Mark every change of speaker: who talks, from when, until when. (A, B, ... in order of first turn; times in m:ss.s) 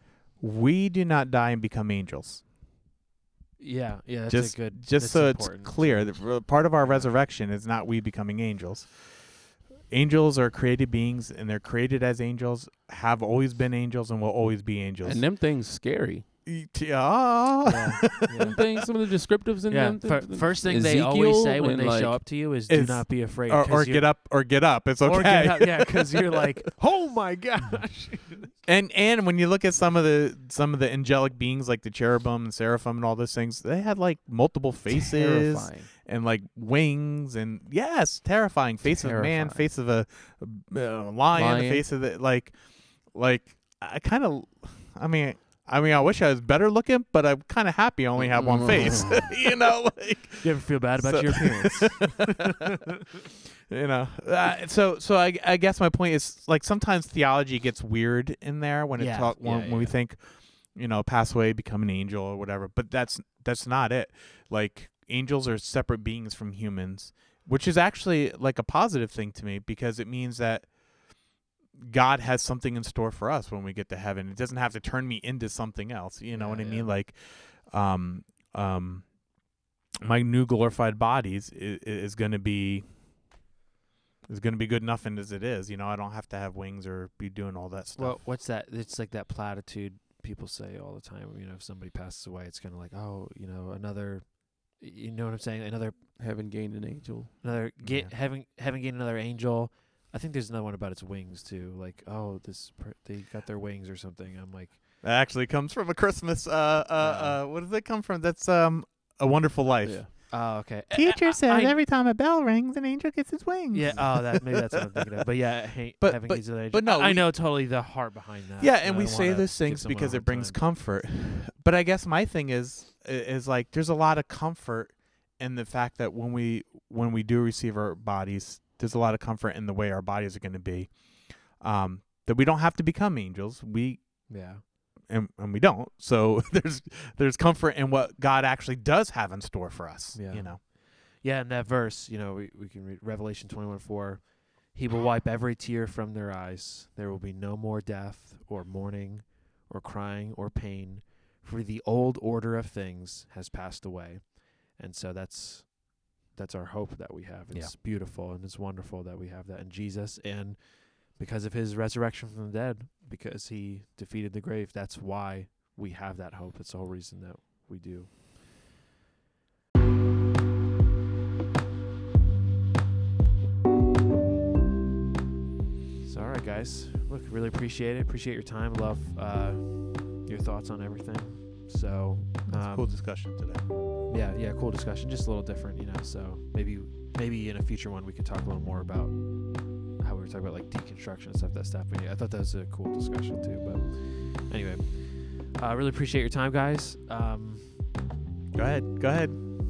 0:00.4-0:02.4 A
0:03.6-0:07.1 B
0:04.3-0:15.2 A
0:15.0-0:16.2 C
0:16.4-0:18.7 A
0:17.6-0:18.6 B
0:18.4-0:22.2 C
0:19.7-0:24.1 B
0:22.7-0:26.5 A
0:25.0-0:28.6 B
0:28.6-0:52.5 A
0:34.9-0:35.9 C
0:38.8-0:39.6 C
0:41.3-0:41.8 C
0:48.2-0:49.2 C
0:50.4-0:52.8 B
0:53.7-1:10.7 A
0:59.0-1:00.0 B
1:11.8-1:19.2 A
1:16.3-1:16.9 B
1:20.0-1:23.0 A
1:24.3-1:28.2 A
1:28.0-1:36.0 B
1:36.2-1:37.4 C
1:37.4-1:44.8 B
1:37.8-1:38.1 A
1:45.0-1:50.4 A
1:47.0-1:47.4 B
1:50.3-1:51.8 B
1:50.9-1:54.6 A
1:53.7-2:00.6 B
1:56.0-1:57.3 A
1:58.6-2:14.3 A
2:14.3-2:14.6 B
2:15.0-2:20.6 A
2:20.1-2:48.1 B
2:56.0-3:03.0 B
3:02.5-3:03.6 A
3:04.1-3:17.8 B
3:18.5-3:19.4 A